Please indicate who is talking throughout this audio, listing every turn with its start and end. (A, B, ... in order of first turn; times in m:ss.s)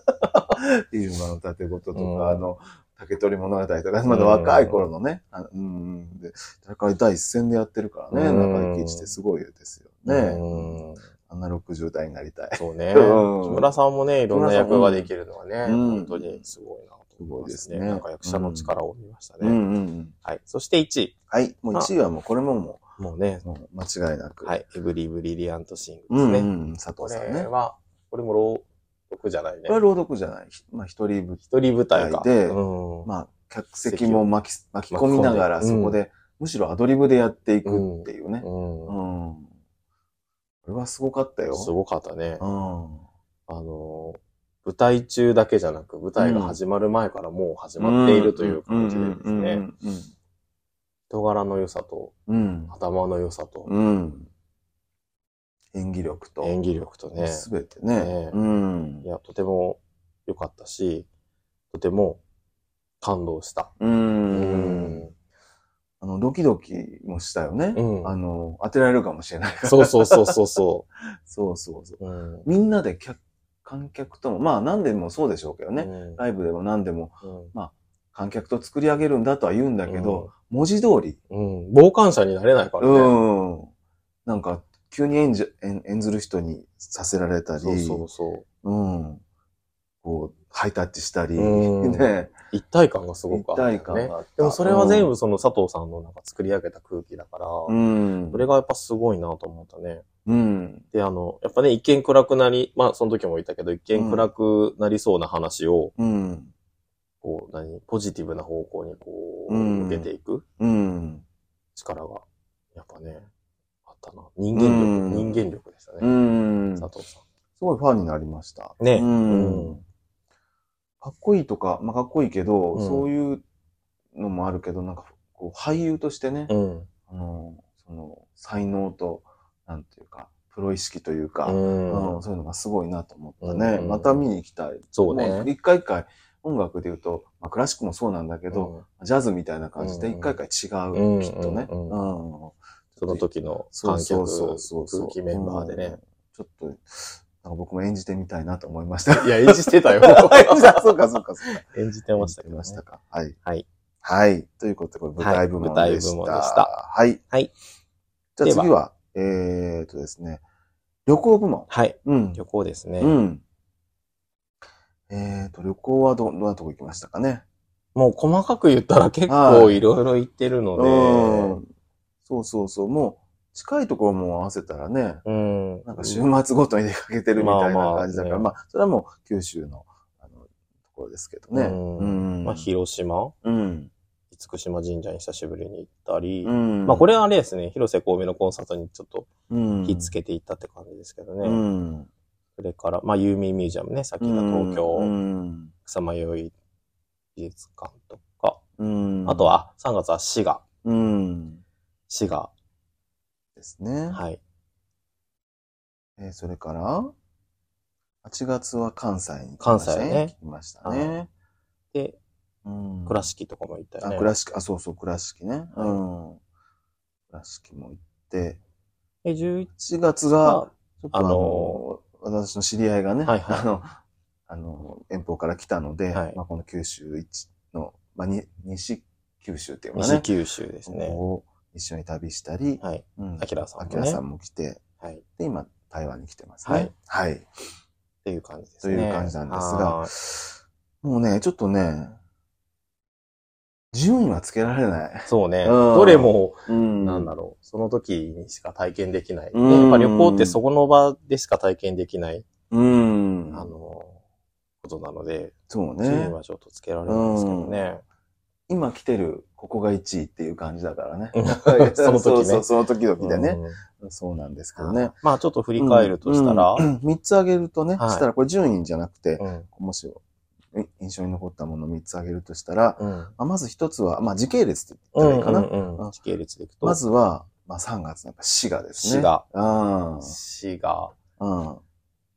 0:00.3-0:13.7 A
0:01.9-0:02.4 B
0:04.1-0:04.9 B
0:08.1-0:09.1 B
0:10.0-0:11.0 B
0:12.6-0:19.6 B
0:14.3-0:15.1 A
0:15.6-0:16.4 A
0:17.2-0:18.7 A
0:19.4-0:20.1 A
0:20.2-0:21.1 B
0:21.3-0:22.8 A
0:23.0-0:23.4 B
0:23.4-0:24.5 A
0:24.4-0:26.5 B
0:26.1-0:27.5 A
0:27.0-0:29.8 B
0:29.7-0:39.5 A
0:31.4-0:33.1 B
0:33.8-0:34.3 B
0:34.9-0:36.0 B
0:37.6-0:39.0 B
0:40.6-0:41.7 A
0:41.5-0:42.4 B
0:42.4-0:43.0 A
0:43.5-0:49.6 B
0:46.2-0:46.6 A
0:47.8-0:50.1 A
0:51.1-0:52.2 B
0:52.3-0:52.7 A
0:52.7-0:53.7 B
0:53.6-0:54.3 A
0:55.7-0:56.5 A
0:56.4-0:58.4 B
0:57.2-0:59.0 A
0:59.0-1:01.1 B
1:01.7-1:02.2 B
1:03.0-1:03.7 B
1:03.8-1:05.1 A
1:04.3-1:05.1 B
1:06.0-1:10.4 A
1:07.7-1:08.1 B
1:09.6-1:10.8 B
1:11.1-1:21.2 A
1:12.0-1:12.5 B
1:15.8-1:16.2 B
1:17.2-1:17.5 B
1:19.9-1:20.3 B
1:21.3-1:23.1 B
1:22.8-1:23.7 A
1:24.2-1:28.0 A
1:27.6-1:28.4 B
1:28.6-1:29.2 A
1:30.0-1:32.3 A
1:31.4-1:37.8 B
1:33.3-1:35.1 A
1:37.7-1:38.4 A
1:38.3-1:40.0 B
1:40.2-1:40.8 A
1:40.9-1:45.9 B
1:43.9-1:44.3 A
1:46.0-1:46.5 A
1:47.2-1:50.4 B
1:49.5-1:51.2 A
1:51.8-1:53.3 B
1:53.9-1:56.1 B
1:54.5-1:55.4 A
1:56.0-1:56.9 A
1:56.8-1:57.2 B
1:57.6-1:59.8 A
1:58.8-1:59.8 B
2:01.0-2:03.4 A
2:02.7-2:03.1 B
2:04.1-2:06.5 A
2:06.5-2:06.9 B
2:07.1-2:33.4 A
2:11.4-2:12.2 B
2:13.4-2:14.2 B
2:14.9-2:15.5 B
2:18.5-2:18.8 B
2:19.8-2:20.4 B
2:20.9-2:22.0 B
2:23.0-2:26.0 B
2:29.1-2:31.0 B
2:31.6-2:32.8 B
2:34.0-2:37.2 A
2:35.2-2:36.7 B
2:38.4-2:40.4 A
2:38.4-2:38.7 B
2:41.0-2:42.4 A
2:41.7-2:43.2 B
2:43.0-2:43.4 A
2:45.1-2:47.4 A
2:47.9-2:51.6 B
2:49.3-2:49.8 A
2:50.8-2:51.6 A
2:52.2-2:55.2 A
2:55.2-2:56.2 B
2:55.8-3:02.7 A
2:57.4-2:58.5 B
3:01.5-3:03.3 B
3:03.4-3:03.9 A
3:04.3-3:09.3 B
3:06.4-3:07.1 A
3:09.5-3:10.1 A
3:09.8-3:11.6 B
3:11.4-3:12.1 A
3:12.6-3:15.1 B
3:14.2-3:15.7 A
3:15.8-3:16.5 B
3:17.4-3:18.6 B
3:18.8-3:19.6 A
3:19.2-3:20.6 B
3:20.8-3:21.6 A
3:22.1-3:22.5 B
3:23.6-3:24.2 A
3:24.1-3:24.4 B
3:26.2-3:27.1 A
3:28.2-3:31.3 A
3:29.6-3:30.3 B
3:30.8-3:31.2 B
3:32.6-3:33.2 A
3:33.0-3:34.3 B
3:34.0-3:36.4 A
3:35.8-3:36.0 B
3:37.3-3:38.6 A
3:39.2-3:39.7 B
3:39.7-3:50.3 A
3:40.4-3:41.8 B
3:43.2-3:43.7 B
3:46.1-3:46.4 B
3:49.9-3:51.2 B
3:50.8-3:54.8 A
3:52.8-3:54.2 B
3:55.4-3:57.5 A
3:56.6-3:56.9 B
3:58.2-4:00.1 B
3:58.8-4:02.2 A
4:03.9-4:07.3 A
4:05.2-4:12.5 B
4:09.5-4:10.6 A
4:12.7-4:13.7 A
4:13.5-4:14.2 B
4:14.8-4:18.0 B
4:15.7-4:16.4 A
4:17.1-4:17.8 A
4:18.7-4:25.1 A
4:21.3-4:22.6 B
4:23.2-4:23.8 B
4:24.8-4:26.9 B
4:25.8-4:30.2 A
4:28.0-4:28.3 B
4:29.4-4:29.6 B
4:30.7-4:36.1 A
4:33.0-4:33.3 B
4:35.1-4:37.0 B
4:36.8-4:40.4 A
4:38.9-4:39.4 B
4:40.2-4:41.1 B
4:41.4-4:41.8 A